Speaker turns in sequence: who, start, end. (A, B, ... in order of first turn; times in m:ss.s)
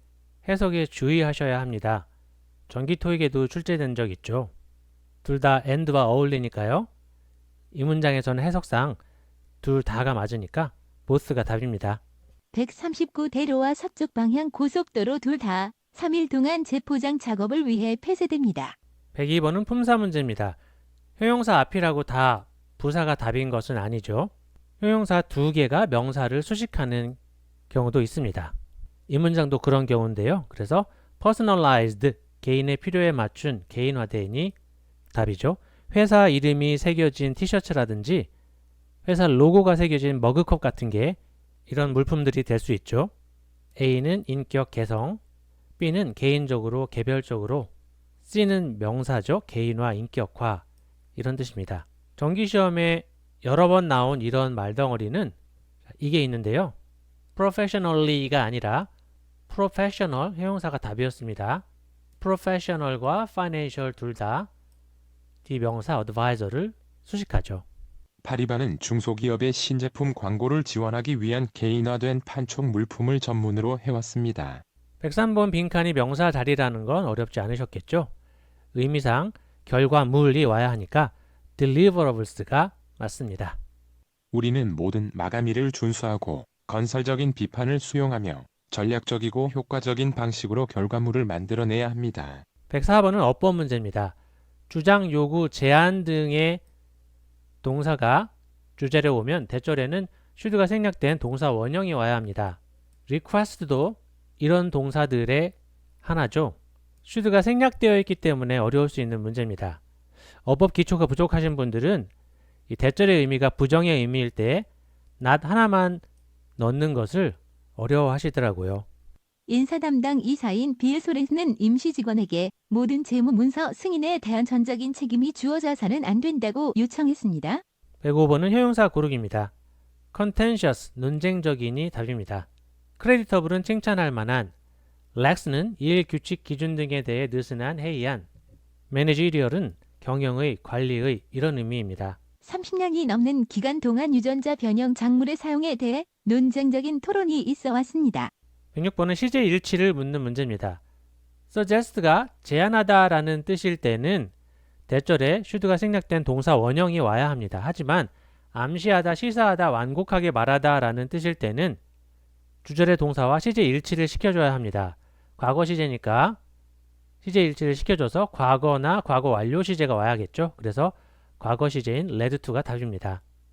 0:00.4-0:02.1 A
0:02.7-0:04.5 A
0:05.2-0:06.9 A
0:07.7-0:09.0 A
0:09.6-0:12.0 A
0:12.5-0:18.8 B
0:19.2-0:20.6 A
0:21.2-0:27.2 A
0:27.7-0:28.5 A
0:29.1-0:34.5 A
0:35.1-0:38.3 A
0:39.0-0:43.1 A
0:43.8-0:45.2 A
0:45.8-0:47.7 A
0:48.2-0:55.4 A
0:56.0-0:56.8 A
0:57.4-0:58.9 A
0:59.5-1:01.6 A
1:02.2-1:04.5 A
1:05.4-1:07.6 A
1:08.2-1:14.6 C
1:15.0-1:18.1 A
1:18.7-1:23.6 A
1:24.3-1:32.4 C
1:32.7-1:34.2 A
1:34.7-1:36.6 A
1:37.6-1:49.8 A
1:50.4-1:52.1 A
1:52.7-1:54.7 A
1:55.2-1:56.0 A
1:56.6-1:58.9 A
1:59.5-2:07.6 B
2:08.0-2:09.5 A
2:10.1-2:12.5 A
2:13.0-2:14.5 A
2:15.2-2:18.3 A
2:18.9-2:22.2 A
2:22.4-2:28.3 B
2:28.7-2:30.8 A
2:31.5-2:34.3 A
2:34.9-2:41.8 A
2:42.6-2:46.4 A
2:47.2-2:53.2 A